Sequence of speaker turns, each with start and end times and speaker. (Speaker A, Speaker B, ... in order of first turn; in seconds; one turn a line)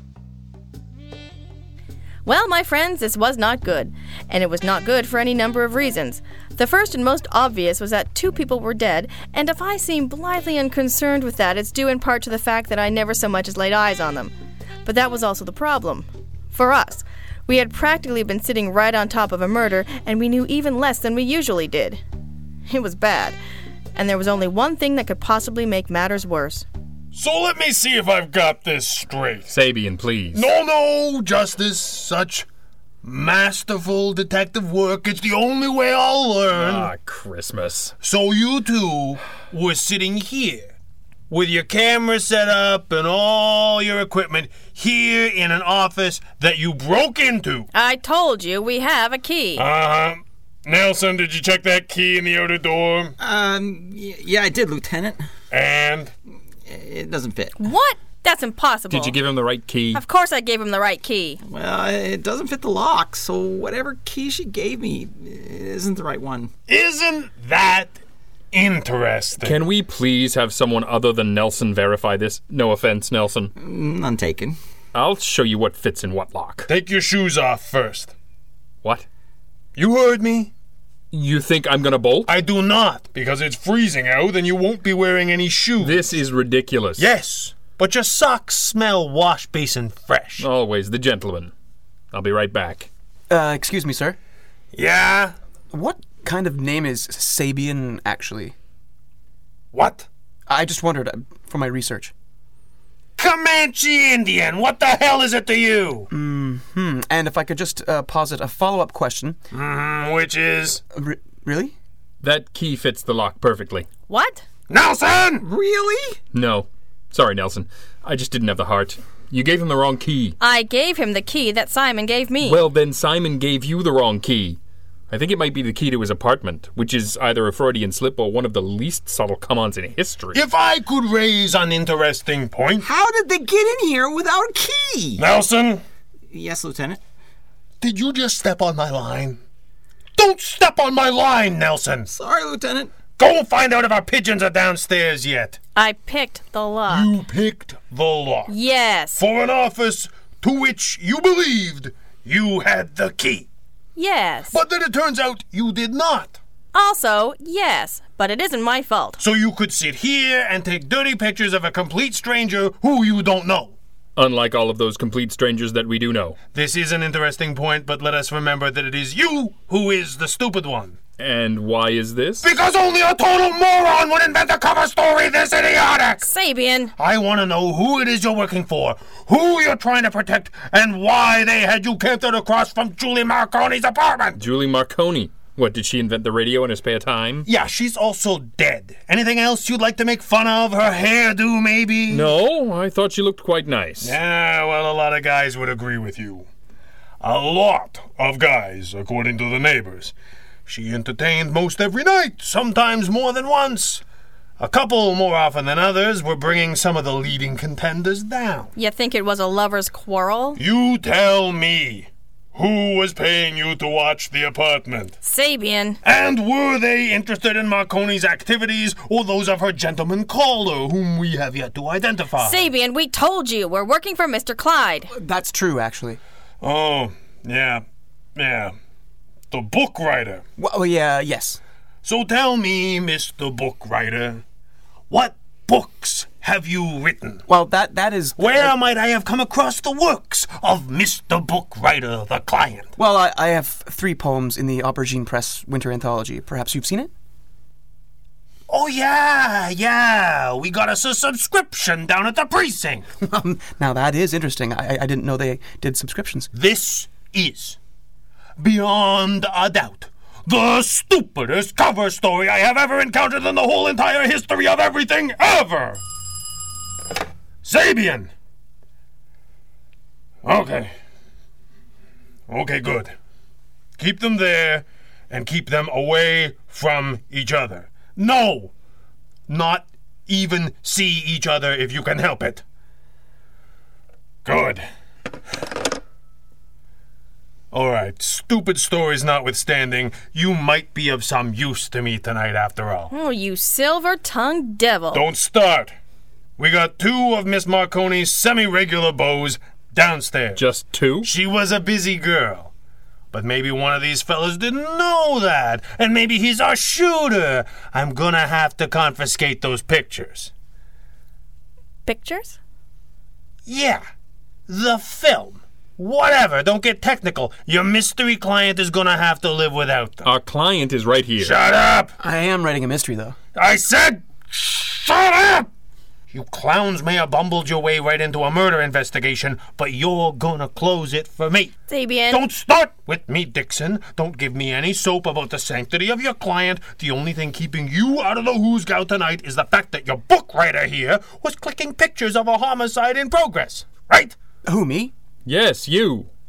Speaker A: 2.3-14.3
Speaker A: 14.8-22.0
Speaker A: 22.7-23.4
Speaker A: 24.0-26.7
Speaker B: 27.1-29.5
Speaker C: 29.5-30.5
Speaker B: 30.3-32.5
Speaker B: 33.0-36.9
Speaker C: 36.5-37.9
Speaker B: 38.0-40.7
Speaker B: 41.3-47.7
Speaker A: 47.7-49.6
Speaker B: 49.6-53.1
Speaker D: 53.2-55.2
Speaker B: 55.5-56.1
Speaker D: 56.6-57.6
Speaker A: 57.6-59.2
Speaker C: 58.9-60.0
Speaker A: 59.9-61.4
Speaker D: 61.4-66.5
Speaker B: 66.7-68.0
Speaker B: 68.5-69.6
Speaker C: 69.4-73.5
Speaker D: 73.6-74.6
Speaker C: 74.9-76.7
Speaker B: 76.7-78.1
Speaker B: 79.8-80.5
Speaker C: 81.1-82.3
Speaker B: 82.3-86.0
Speaker C: 85.8-87.1
Speaker B: 87.0-90.5
Speaker C: 90.4-91.5
Speaker C: 92.1-92.9
Speaker E: 93.3-94.2
Speaker B: 94.7-95.3
Speaker E: 95.7-98.5
Speaker B: 99.7-100.1
Speaker E: 100.5-102.1
Speaker B: 103.2-106.1
Speaker E: 106.1-109.4
Speaker B: 109.5-110.8
Speaker E: 110.9-111.8
Speaker C: 112.2-113.9
Speaker A: 114.1-114.4
Speaker B: 114.7-115.5
Speaker D: 115.5-116.2
Speaker C: 116.3-120.4
Speaker A: 120.4-122.6
Speaker C: 122.4-124.6
Speaker C: 125.1-130.4
Speaker B: 130.3-132.9
Speaker D: 132.9-135.2
Speaker E: 132.9-135.2
Speaker B: 135.2-135.8
Speaker D: 136.3-137.0
Speaker B: 137.8-139.4
Speaker B: 140.2-142.1
Speaker D: 142.1-142.9
Speaker B: 143.2-145.6
Speaker A: 145.8-147.1
Speaker B: 146.9-148.5
Speaker A: 148.5-149.2
Speaker B: 149.2-153.5
Speaker A: 154.0-154.6
Speaker B: 154.5-156.4
Speaker A: 156.7-159.2
Speaker B: 159.2-163.8
Speaker C: 164.2-166.4
Speaker B: 166.5-171.0
Speaker C: 171.2-172.5
Speaker B: 172.4-176.2
Speaker A: 176.2-176.9
Speaker B: 177.0-184.4
Speaker C: 184.4-187.5
Speaker B: 187.5-192.3
Speaker C: 192.1-194.2
Speaker B: 194.0-196.5
Speaker B: 197.2-200.1
Speaker B: 200.7-204.0
Speaker B: 204.6-208.7
Speaker A: 208.8-210.6
Speaker B: 210.6-215.2
Speaker A: 215.2-216.0
Speaker B: 216.0-222.7
Speaker A: 222.4-225.1
Speaker E: 225.1-226.2
Speaker B: 226.6-227.8
Speaker B: 228.3-228.7
Speaker B: 229.5-230.4
Speaker E: 230.6-231.6
Speaker B: 232.0-234.4
Speaker B: 235.1-237.4
Speaker E: 237.5-238.7
Speaker B: 238.4-242.9
Speaker E: 243.0-247.1
Speaker B: 248.7-253.1
Speaker E: 253.2-256.5
Speaker B: 256.5-257.8
Speaker B: 258.6-266.0
Speaker B: 267.6-268.3
Speaker B: 270.4-270.9
Speaker B: 272.5-273.1
Speaker B: 274.0-278.7
Speaker B: 279.5-282.6
Speaker B: 284.4-284.8
Speaker B: 287.7-293.1
Speaker A: 293.1-295.2
Speaker B: 295.1-295.9
Speaker B: 296.6-300.6
Speaker C: 300.6-301.3
Speaker B: 301.2-302.7
Speaker B: 303.3-310.5
Speaker A: 312.1-312.6
Speaker B: 313.7-314.0
Speaker B: 314.7-320.3
Speaker C: 320.2-321.6
Speaker B: 321.4-322.1
Speaker E: 322.2-323.4
Speaker B: 323.6-325.7
Speaker B: 326.3-331.7
Speaker A: 331.9-332.4
Speaker B: 332.3-344.4
Speaker E: 344.6-345.1
Speaker C: 345.5-346.3